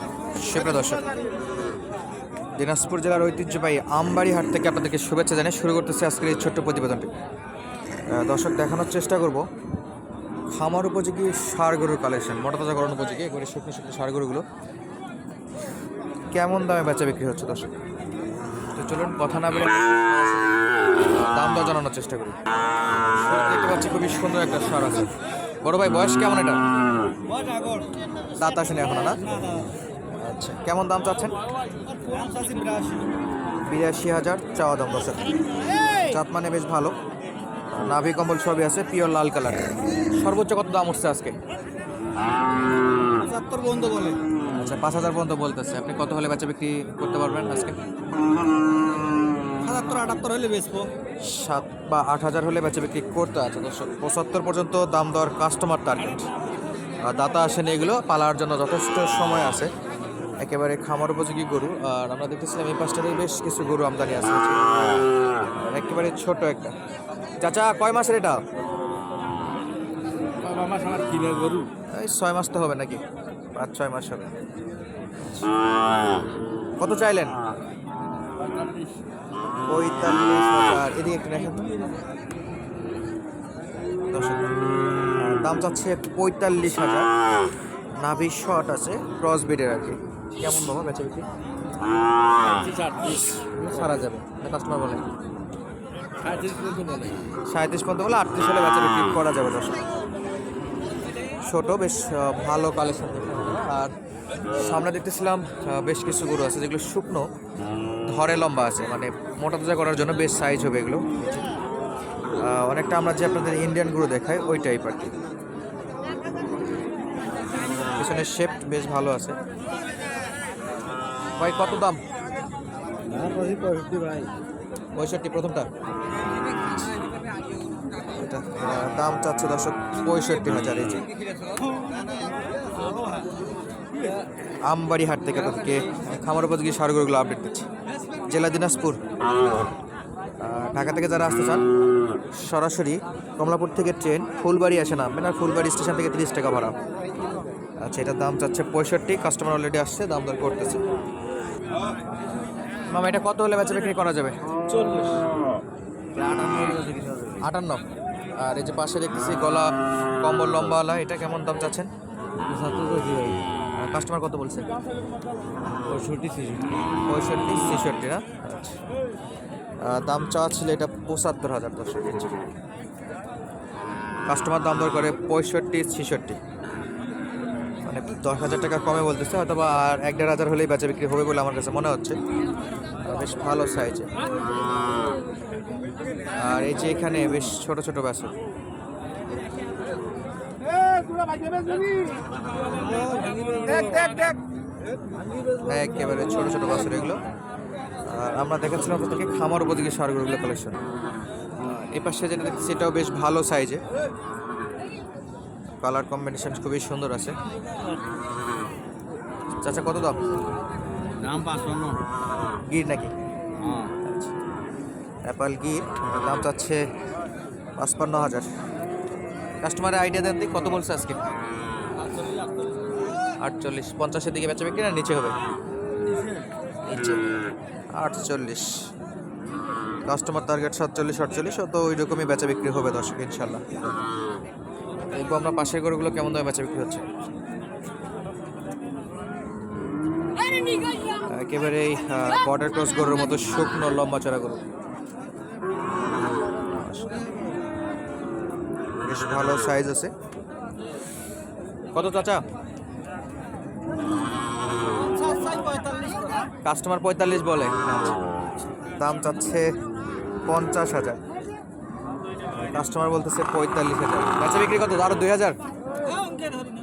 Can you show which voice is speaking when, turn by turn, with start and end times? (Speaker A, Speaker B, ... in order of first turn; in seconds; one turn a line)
Speaker A: 0.4-1.0
Speaker A: 2.6-7.1
Speaker A: 8.1-9.4
Speaker A: 10.6-14.4
Speaker A: 16.3-17.7
Speaker A: 18.7-19.8
Speaker A: 21.0-22.4
Speaker A: 23.1-25.1
Speaker A: 25.6-26.6
Speaker A: 28.4-29.6
Speaker A: 30.2-31.3
Speaker B: 32.1-33.0
Speaker A: 33.7-35.2
Speaker A: 35.9-36.9
Speaker A: 37.7-41.3
Speaker B: 43.2-44.2
Speaker A: 44.5-47.8
Speaker B: 49.6-50.9
Speaker A: 51.2-56.2
Speaker A: 57.0-59.7
Speaker A: 60.4-65.0
Speaker A: 65.6-66.7
Speaker A: 67.4-68.4
Speaker B: 70.4-71.7
Speaker A: 71.9-73.0
Speaker A: 73.5-74.3
Speaker A: 76.8-77.4
Speaker B: 78.4-78.9
Speaker A: 79.7-81.7
Speaker A: 84.1-84.4
Speaker A: 85.2-87.1
Speaker A: 88.0-91.2
Speaker B: 92.5-93.8
Speaker A: 93.6-95.1
Speaker B: 96.2-97.2
Speaker A: 97.5-99.8
Speaker A: 101.4-103.9
Speaker A: 104.5-107.2
Speaker A: 108.0-111.0
Speaker A: 112.4-115.1
Speaker A: 118.0-119.3
Speaker A: 121.4-122.0
Speaker B: 123.1-124.3
Speaker A: 125.0-125.7
Speaker A: 128.1-131.0
Speaker A: 134.7-137.7
Speaker A: 138.3-139.0
Speaker A: 140.4-141.6
Speaker A: 142.3-146.8
Speaker A: 147.8-150.8
Speaker A: 152.9-154.3
Speaker B: 154.7-155.2
Speaker B: 156.1-157.4
Speaker A: 157.4-157.8
Speaker A: 158.4-161.9
Speaker B: 162.4-163.4
Speaker A: 163.8-164.7
Speaker B: 165.8-166.8
Speaker A: 167.1-168.8
Speaker A: 169.8-172.3
Speaker A: 174.3-176.4
Speaker A: 177.8-182.2
Speaker A: 183.0-184.1
Speaker A: 186.3-188.3
Speaker B: 191.0-192.1
Speaker B: 192.7-194.3
Speaker A: 195.6-197.2
Speaker A: 198.1-200.8
Speaker A: 201.9-203.8
Speaker A: 205.8-207.3
Speaker A: 209.6-210.2
Speaker B: 211.1-212.0
Speaker A: 212.7-213.1
Speaker B: 213.6-213.9
Speaker A: 214.0-214.3
Speaker A: 215.2-216.8
Speaker A: 217.8-218.5
Speaker A: 219.6-221.2
Speaker A: 223.4-225.3
Speaker A: 226.9-227.2
Speaker A: 228.0-228.7
Speaker A: 230.1-233.7
Speaker A: 235.1-237.0
Speaker A: 241.3-244.6
Speaker A: 246.7-247.2
Speaker A: 249.0-250.1
Speaker A: 251.9-252.4
Speaker B: 255.6-256.0
Speaker A: 256.6-258.2
Speaker A: 258.8-259.7
Speaker A: 260.4-261.2
Speaker A: 262.6-265.6